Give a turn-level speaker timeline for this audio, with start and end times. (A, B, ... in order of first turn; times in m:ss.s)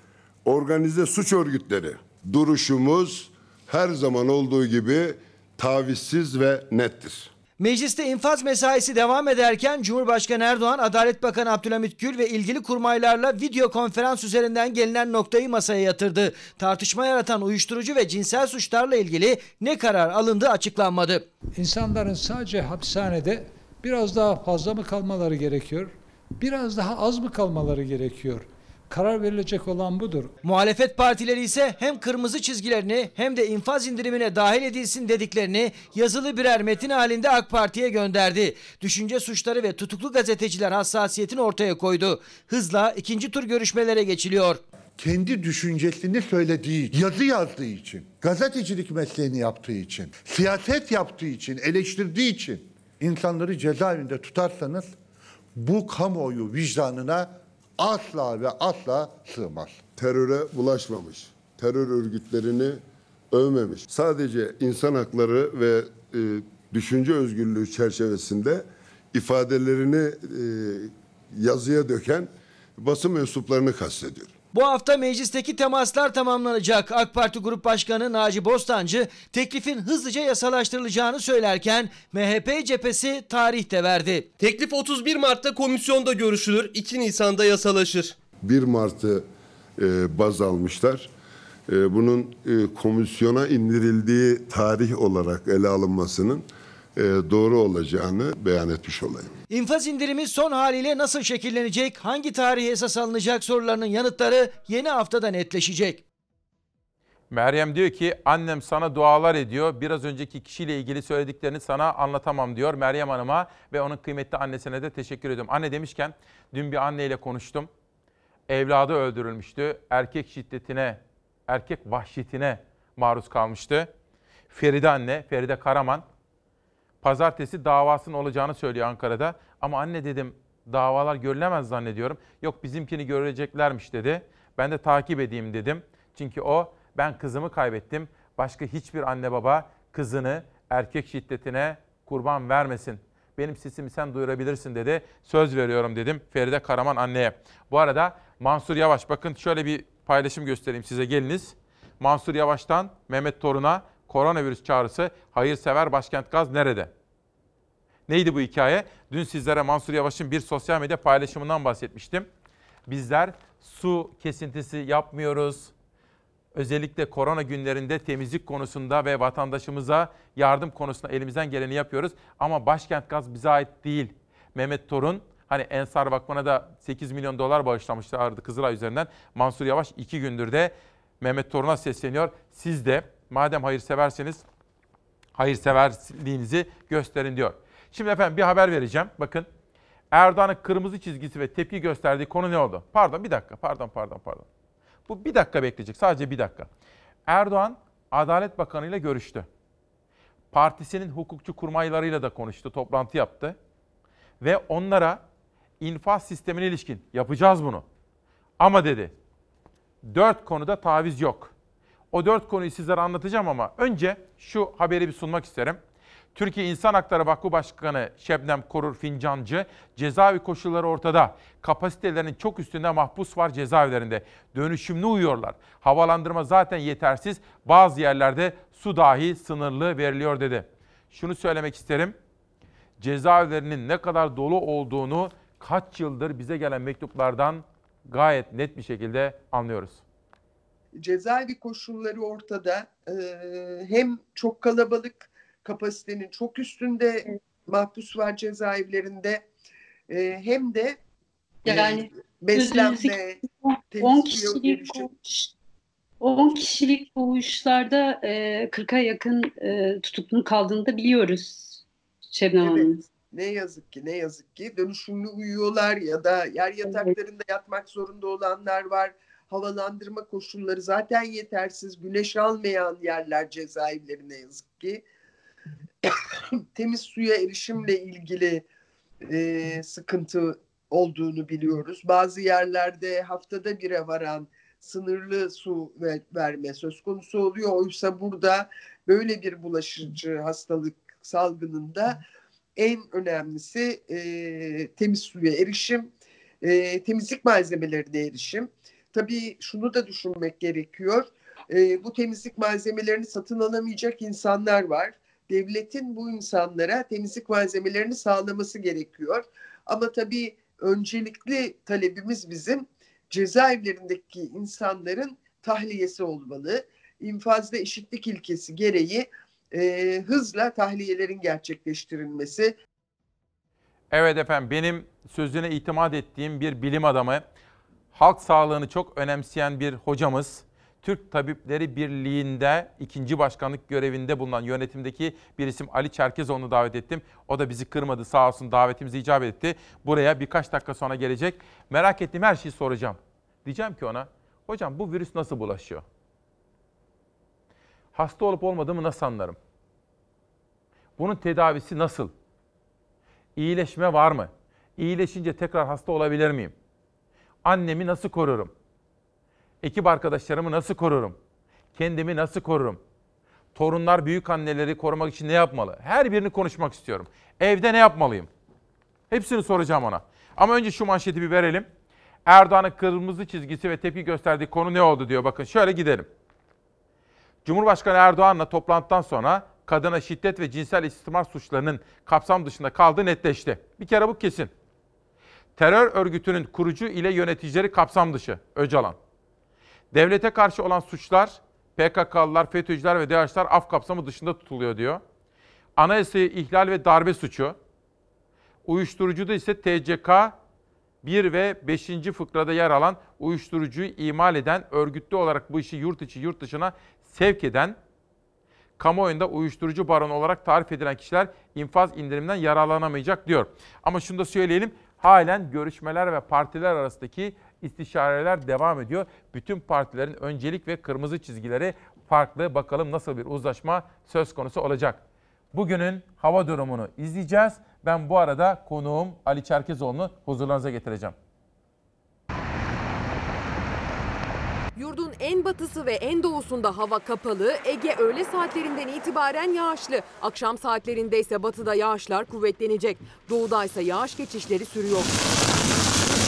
0:00.5-0:07.3 A
0:07.6-0:21.2 B
0:21.5-0:30.3 C
0:30.4-0:44.6 B
0:45.0-0:55.0 D
0:55.6-0:59.8 D
1:00.0-1:02.8 A
1:03.3-1:14.3 A
1:14.5-1:24.3 B
1:24.4-1:28.2 E
1:28.4-1:29.3 A
1:29.8-1:31.1 A
1:31.7-1:39.3 A
1:39.5-1:46.0 B
1:47.3-1:57.7 F
1:58.5-2:03.9 F
2:04.5-2:06.0 F
2:07.0-2:36.9 F
2:38.1-2:42.3 F
2:42.9-2:45.7 F
2:46.6-3:04.4 F
3:05.4-3:09.5 F
3:10.1-3:14.5 F
3:15.1-3:16.7 F
3:17.3-3:19.5 F
3:20.5-3:23.6 F
3:24.4-3:25.2 F
3:25.8-3:27.8 F
3:28.6-3:29.1 F
3:30.0-3:31.5 F
3:32.1-3:35.8 F
3:36.4-3:52.2 F
3:53.0-4:00.0 F
4:01.0-4:09.5 G
4:10.1-4:11.0 G
4:11.7-4:13.2 H
4:11.7-4:13.4 G
4:13.9-4:15.1 G
4:14.0-4:15.5 H
4:16.2-4:23.0 H
4:22.6-4:35.0 G
4:26.8-4:27.1 H
4:36.8-4:38.6 G
4:39.3-4:52.2 G
4:52.8-5:22.7 G
5:24.1-5:27.4 F
5:28.1-5:46.0 F
5:48.2-5:49.6 F
5:51.2-5:52.3 F
5:53.6-5:56.7 F
5:57.6-5:58.7 F
5:59.8-6:01.4 F
6:02.0-6:03.0 F
6:03.8-6:08.5 F
6:09.3-6:11.9 F
6:12.5-6:16.3 F
6:17.6-6:24.7 F
6:25.8-6:29.2 F
6:30.1-6:35.2 F
6:36.0-6:37.8 F
6:38.9-6:40.6 F
6:41.2-6:48.0 F
6:49.0-7:05.2 F
7:05.7-7:11.4 F
7:15.0-7:25.4 I